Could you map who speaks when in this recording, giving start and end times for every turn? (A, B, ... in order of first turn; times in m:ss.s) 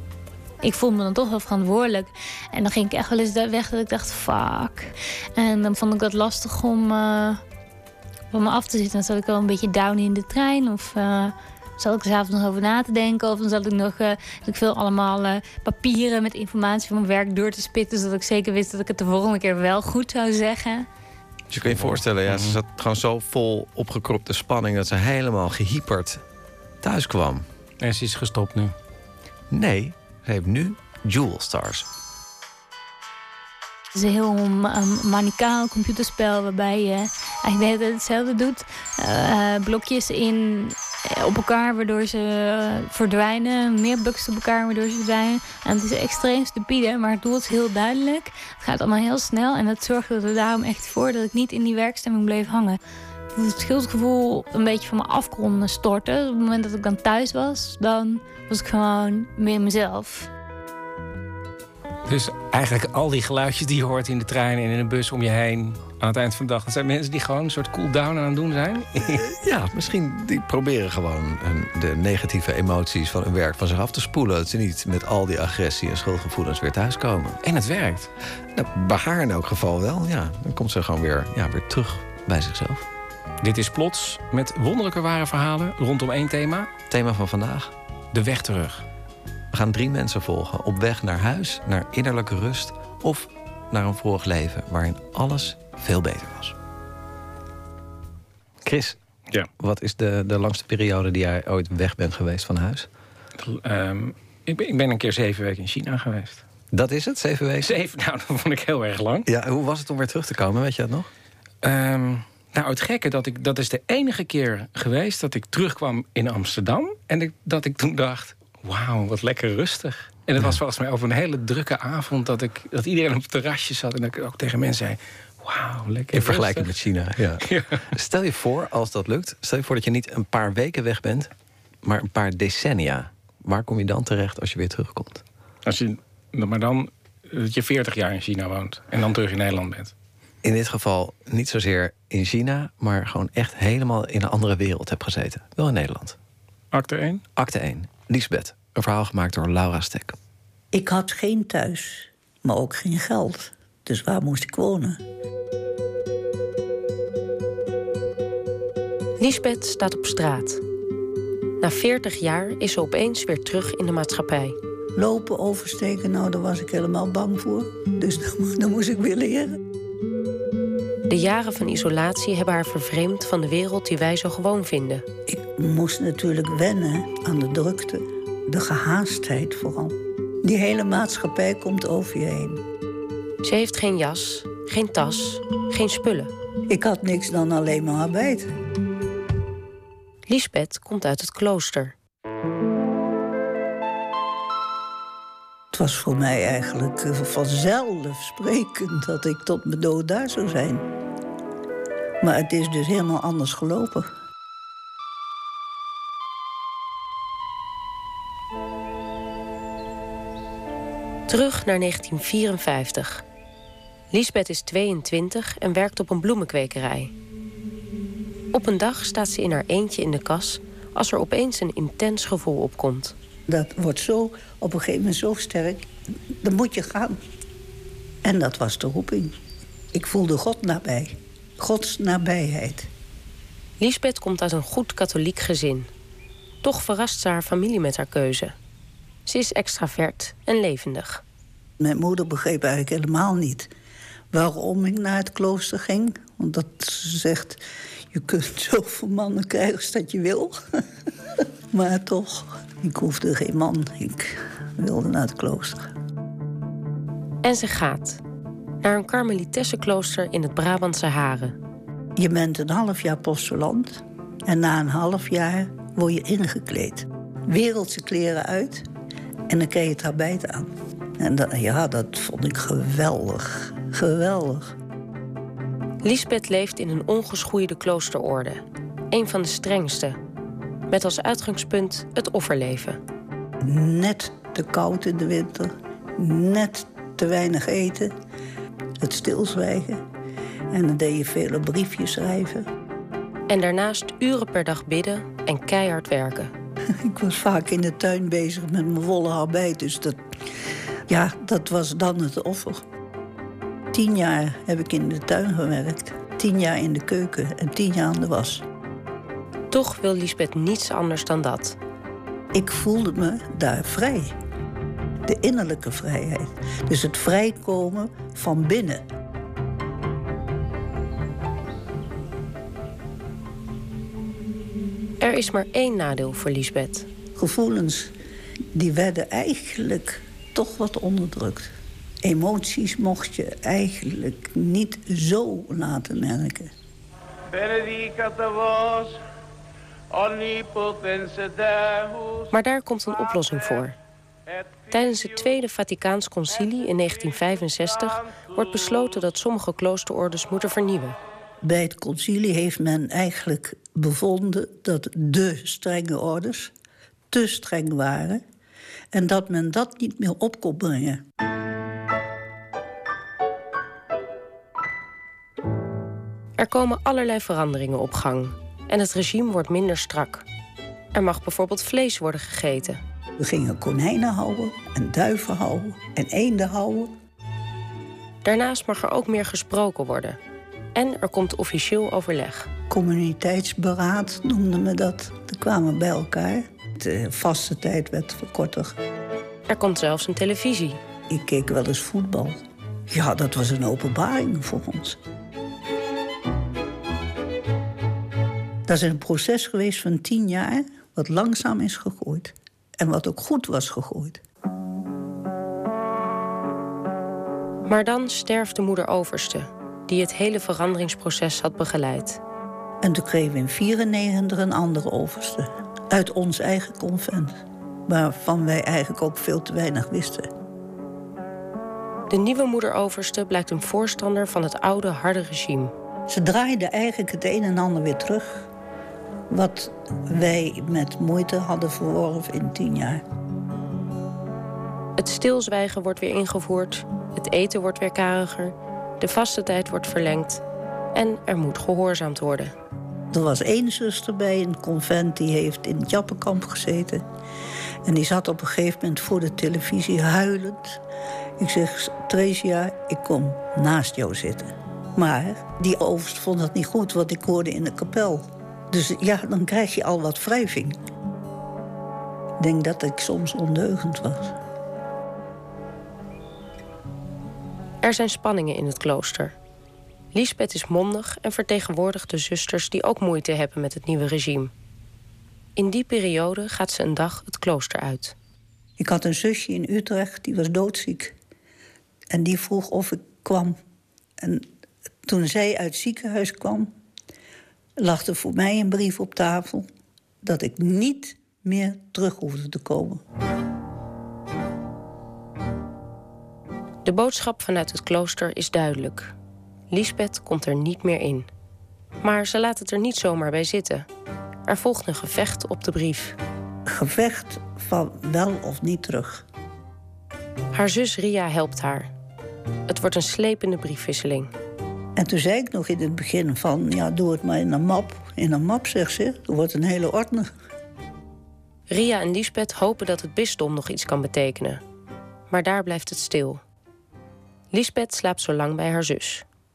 0:00.6-0:07.4 A
0:08.3-0:20.9 A
0:21.5-0:26.2 B
0:21.6-0:22.6 C
0:26.8-0:27.5 B
0:27.8-0:28.7 C
0:29.5-0:31.9 B
0:34.0-0:52.8 A
0:53.3-1:00.3 A
1:02.1-1:09.2 C
1:09.1-1:17.4 B
1:17.5-1:18.1 C
1:18.4-1:22.9 B
1:23.4-1:26.7 C
1:26.9-1:27.7 B
1:28.1-1:28.8 C
1:29.5-1:36.6 B
1:38.6-1:39.0 B
1:39.6-1:42.9 B
1:43.4-1:46.4 C
1:46.7-1:47.8 B
1:47.6-1:49.3 C
1:49.3-1:51.1 B
1:51.6-2:06.8 C
2:06.1-2:11.3 B
2:07.4-2:07.8 C
2:11.8-2:15.2 B
2:15.6-2:19.9 C
2:20.4-2:26.2 B
2:26.7-2:27.2 C
2:27.4-2:30.2 B
2:30.7-2:35.0 D
2:39.2-2:40.6 E
2:41.6-2:44.6 E
2:45.0-2:49.6 D
2:51.1-2:55.0 E
2:55.3-3:02.6 D
3:03.4-3:06.3 E
3:06.7-3:08.5 D
3:10.3-3:12.0 E
3:15.7-3:20.9 D
3:22.2-3:24.1 D
3:31.3-3:33.2 E
3:34.1-3:37.1 E
3:38.5-3:43.2 E
3:43.5-3:45.9 D
3:46.4-3:47.2 D
3:48.2-3:49.4 D
3:49.9-3:52.9 D
3:53.8-3:55.9 E
3:56.6-3:58.6 E
3:59.3-4:01.2 E
4:01.8-4:03.7 D
4:04.3-4:10.8 D
4:11.4-4:15.9 D
4:17.4-4:18.2 E
4:18.8-4:21.6 E
4:22.2-4:28.9 D
4:29.5-4:34.8 D
4:36.0-4:40.2 E
4:40.9-4:43.0 E
4:43.6-4:48.1 D
4:49.0-4:50.0 D
4:50.7-4:52.7 D
4:53.5-4:56.5 E
4:57.0-5:00.2 D
5:01.1-5:02.8 D
5:03.9-5:08.6 D
5:09.7-5:11.8 E
5:12.5-5:14.4 D
5:15.2-5:19.0 D
5:25.2-5:27.1 E
5:27.4-5:28.1 D
5:28.7-5:36.7 D
5:42.5-5:44.0 E
5:44.9-5:51.2 E
5:51.6-5:56.7 D
5:57.3-5:58.4 D
5:59.1-6:01.2 D
6:06.6-6:10.4 E
6:11.2-6:13.0 E
6:13.4-6:17.2 D
6:18.4-6:20.4 E
6:21.0-6:22.7 E
6:22.9-6:29.0 D
6:29.7-6:31.0 E
6:31.3-6:35.2 D
6:38.9-6:44.4 D
6:47.9-6:52.4 E
6:53.0-7:00.5 D
7:02.3-7:05.9 E
7:06.3-7:08.7 D
7:09.5-7:13.2 D
7:15.2-7:20.6 E
7:21.1-7:22.7 E
7:23.3-7:27.2 D
7:28.0-7:31.0 D
7:31.6-7:41.0 D
7:42.6-7:44.6 D
7:48.0-7:49.6 E
7:50.3-7:54.7 E
7:55.8-7:58.4 E
7:59.0-8:01.4 D
8:02.3-8:03.8 D
8:04.4-8:04.7 D
8:05.2-8:06.9 D
8:08.0-8:09.9 D
8:10.4-8:13.2 D
8:17.0-8:19.3 E
8:19.9-8:21.5 E
8:22.2-8:24.1 E
8:24.7-8:26.4 E
8:26.9-8:29.4 D
8:30.7-8:32.1 E
8:32.9-8:34.5 E
8:35.2-8:40.5 D
8:41.9-8:44.8 E
8:45.5-8:46.6 E
8:47.7-8:49.4 E